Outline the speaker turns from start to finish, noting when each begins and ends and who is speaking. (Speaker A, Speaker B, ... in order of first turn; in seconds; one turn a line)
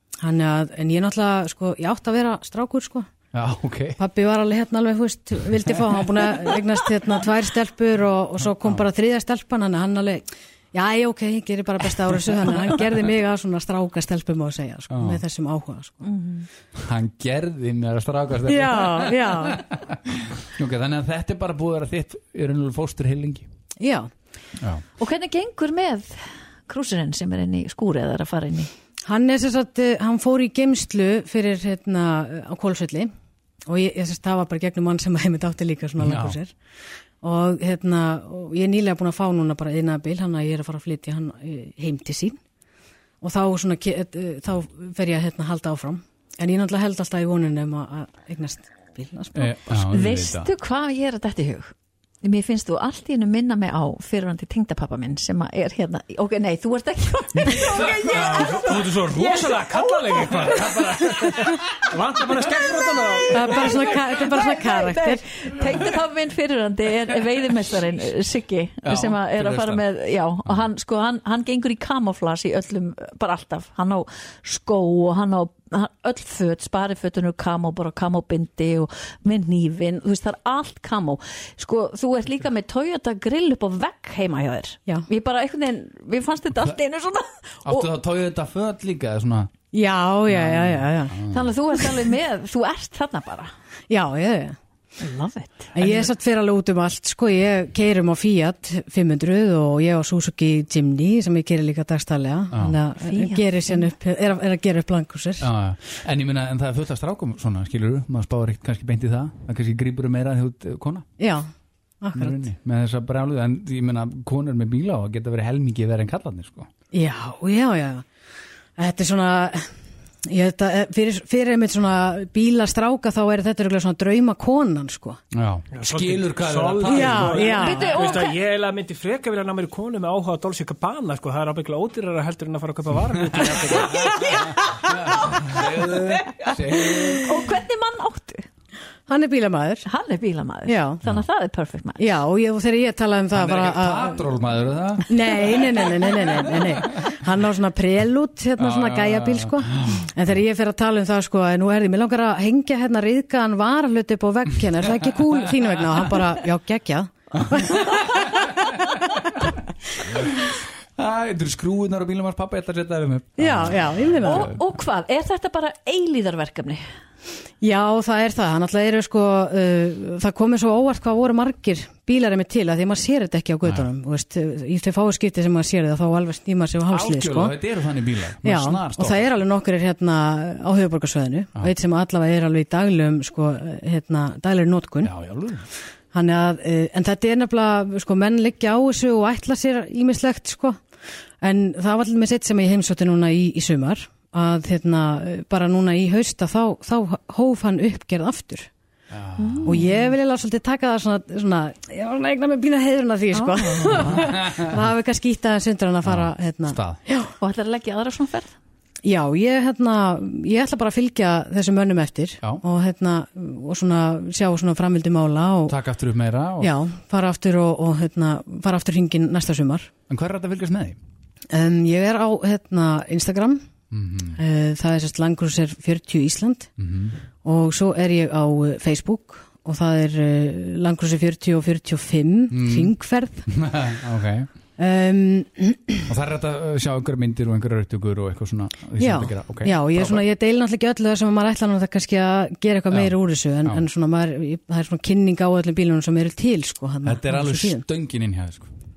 Speaker A: 0.2-3.1
Speaker B: 3.3-4.0
Speaker A: 4.0-16.1
Speaker B: 14.9-15.2
Speaker C: 16.0-16.5
Speaker B: 16.8-23.5
Speaker A: 18.4-19.6
Speaker A: 23.8-24.1
Speaker C: 25.0-28.7
Speaker A: 29.0-33.1
Speaker A: 33.7-36.5
Speaker B: 36.0-36.4
Speaker A: 37.2-42.4
Speaker A: 43.2-49.6
Speaker B: 49.4-50.5
Speaker C: 49.9-51.7
Speaker C: 52.2-60.6
Speaker D: 58.0-63.9
Speaker A: 63.3-65.2
Speaker C: 64.1-87.9
Speaker B: 68.8-69.8
Speaker B: 87.6-89.5
Speaker A: 89.7-91.2
Speaker B: 90.3-91.4
Speaker C: 91.3-93.5
Speaker A: 93.9-94.6
Speaker C: 95.0-95.7
Speaker A: 95.7-105.5
Speaker B: 95.8-96.1
Speaker C: 103.0-103.9
Speaker B: 105.4-111.0
Speaker A: 111.2-111.5
Speaker A: 112.0-112.4
Speaker B: 112.1-116.7
Speaker A: 116.9-118.0
Speaker A: 118.8-119.7
Speaker A: 120.3-125.2
Speaker B: 125.3-127.7
Speaker D: 125.7-134.5
Speaker A: 126.8-128.0
Speaker C: 127.4-128.3
Speaker B: 133.4-137.3
Speaker C: 136.9-138.4
Speaker A: 139.1-139.9
Speaker C: 139.8-142.0
Speaker A: 140.7-141.0
Speaker A: 142.0-144.3
Speaker B: 143.3-146.0
Speaker A: 145.0-159.4
Speaker B: 148.6-150.1
Speaker B: 160.1-164.6
Speaker A: 163.4-164.5
Speaker C: 164.2-166.8
Speaker A: 167.6-177.6
Speaker B: 176.9-179.2
Speaker A: 178.4-185.1
Speaker B: 185.0-185.7
Speaker A: 186.1-190.8
Speaker A: 191.4-198.7
Speaker B: 199.1-199.6
Speaker C: 199.4-200.0
Speaker A: 199.6-207.3
Speaker C: 203.3-204.3
Speaker B: 203.9-204.7
Speaker B: 206.0-207.0
Speaker C: 207.4-208.5
Speaker A: 209.0-215.8
Speaker B: 215.7-216.7
Speaker A: 216.6-219.9
Speaker B: 220.1-221.0
Speaker A: 221.5-223.6
Speaker B: 223.9-224.4
Speaker A: 224.3-226.7
Speaker B: 226.8-227.2
Speaker A: 227.4-233.5
Speaker B: 232.5-232.9
Speaker B: 233.5-234.5
Speaker A: 234.8-236.1
Speaker B: 236.1-240.2
Speaker A: 239.0-247.8
Speaker B: 242.9-243.8
Speaker B: 247.0-248.7